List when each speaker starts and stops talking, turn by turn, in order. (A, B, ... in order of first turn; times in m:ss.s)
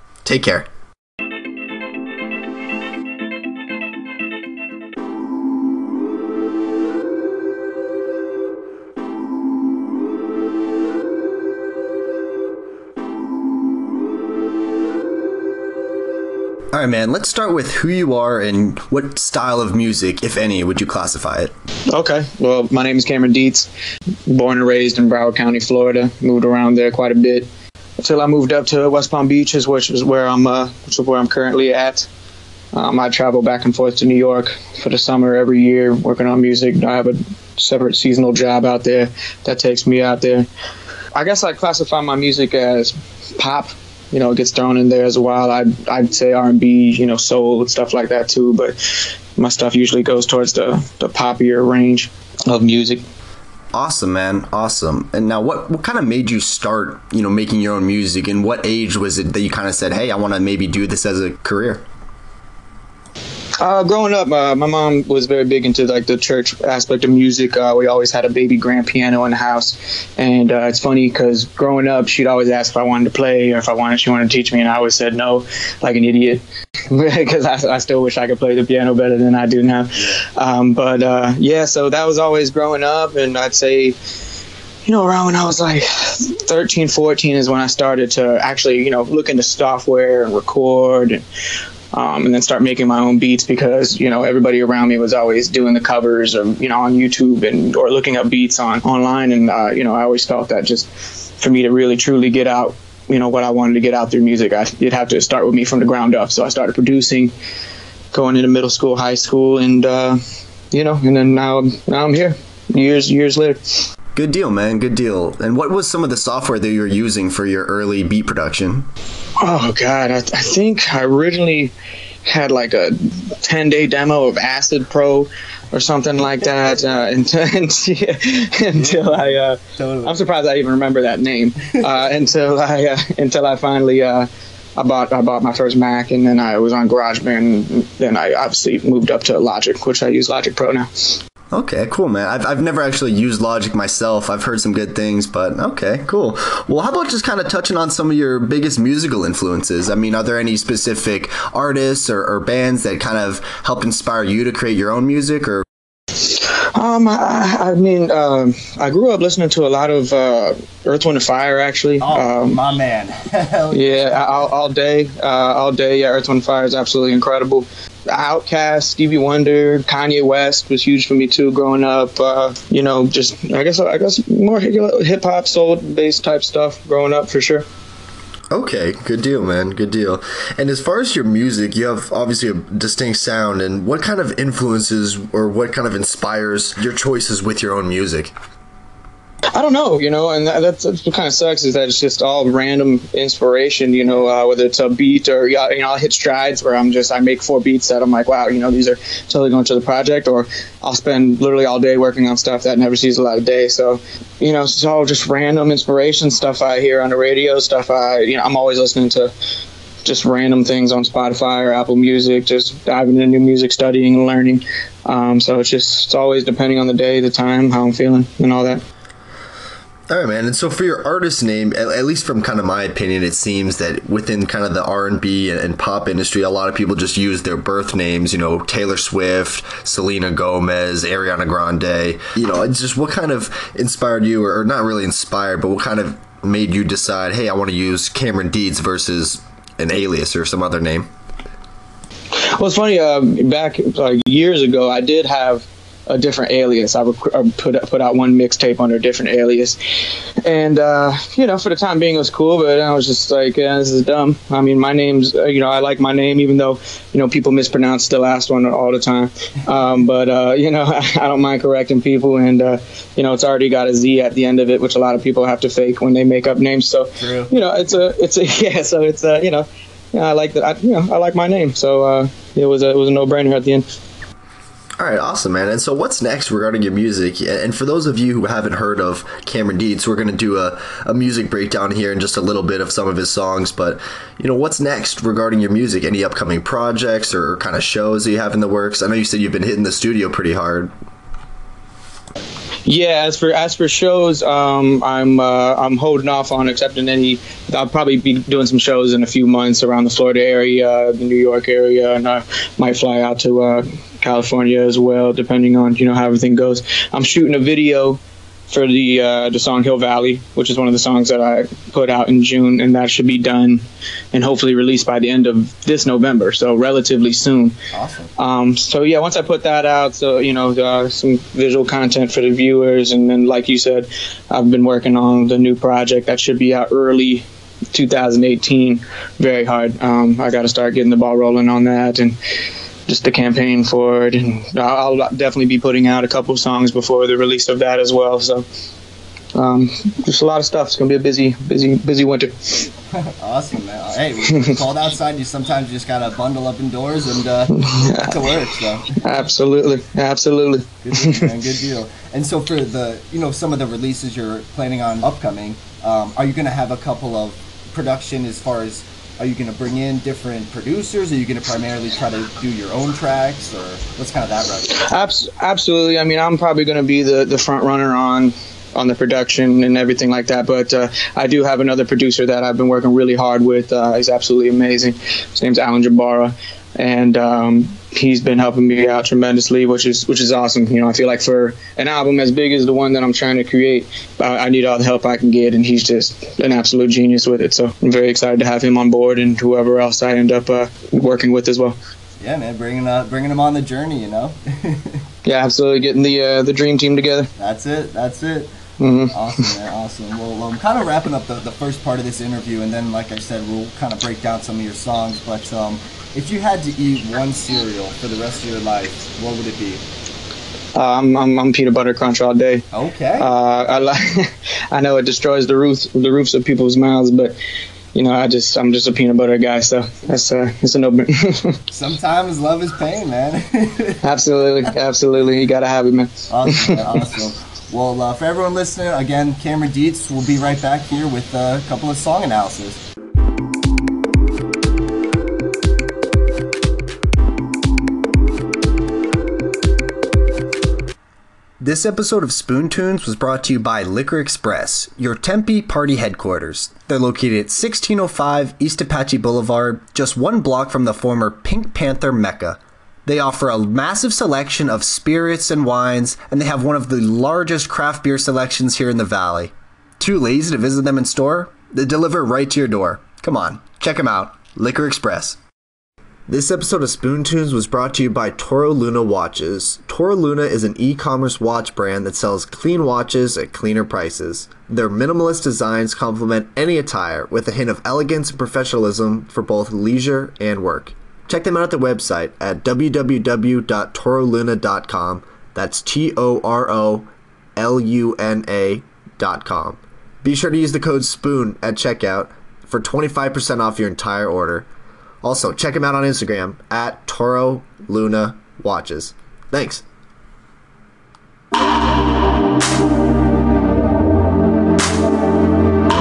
0:00.2-0:00.7 A
0:16.7-0:21.5 A
0:21.9-0:23.7 B
0:24.2-0:32.1 B
0:32.7-0:40.5 B
0:41.1-0:53.0 B
0:53.7-1:01.8 A
1:03.6-1:24.0 B
1:24.8-1:31.3 B
1:31.9-1:47.3 B
1:48.1-1:50.2 B
1:50.7-1:53.8 B
1:54.1-1:58.9 A
1:59.4-2:21.2 B
2:21.5-2:35.6 A
2:36.2-2:42.6 B
2:42.0-2:43.0 A
2:42.1-2:44.1 C
2:43.6-2:44.2 A
2:43.7-2:57.7 B
2:58.5-3:08.3 A
3:09.5-3:29.3 B
3:30.0-3:38.8 B
3:40.1-4:01.1 A
4:02.4-4:33.8 B
4:27.2-4:27.5 A
4:35.0-4:50.9 A
4:52.8-5:17.7 B
5:17.9-5:18.3 A
5:18.4-5:32.4 B
5:33.0-5:38.6 B
5:39.5-5:42.9 B
5:43.4-5:49.2 C
5:44.1-5:44.7 A
5:44.4-5:44.8 B
5:45.4-5:47.2 A
5:47.7-5:51.5 B
5:51.0-6:04.8 C
5:53.4-5:55.9 A
5:58.3-5:58.9 A
5:59.5-5:59.8 A
6:01.2-6:01.9 A
6:02.8-6:04.6 A
6:04.8-6:32.0 B
6:32.4-6:33.3 C
6:32.6-6:34.5 A
6:33.9-6:34.5 C
6:35.4-6:37.5 B
6:37.6-6:38.6 C
6:39.0-6:39.8 B
6:39.3-6:41.9 C
6:40.3-6:42.9 A
6:42.7-6:50.0 C
6:49.4-6:49.8 A
6:50.9-6:52.8 B
6:52.9-6:53.5 C
6:53.4-6:57.6 B
6:58.1-7:01.8 B
7:01.9-7:04.2 C
7:04.2-7:07.2 B
7:06.5-7:08.4 C
7:07.9-7:13.0 A
7:09.9-7:11.5 C
7:21.8-7:45.6 A
7:46.5-8:14.9 A
8:15.4-8:20.0 A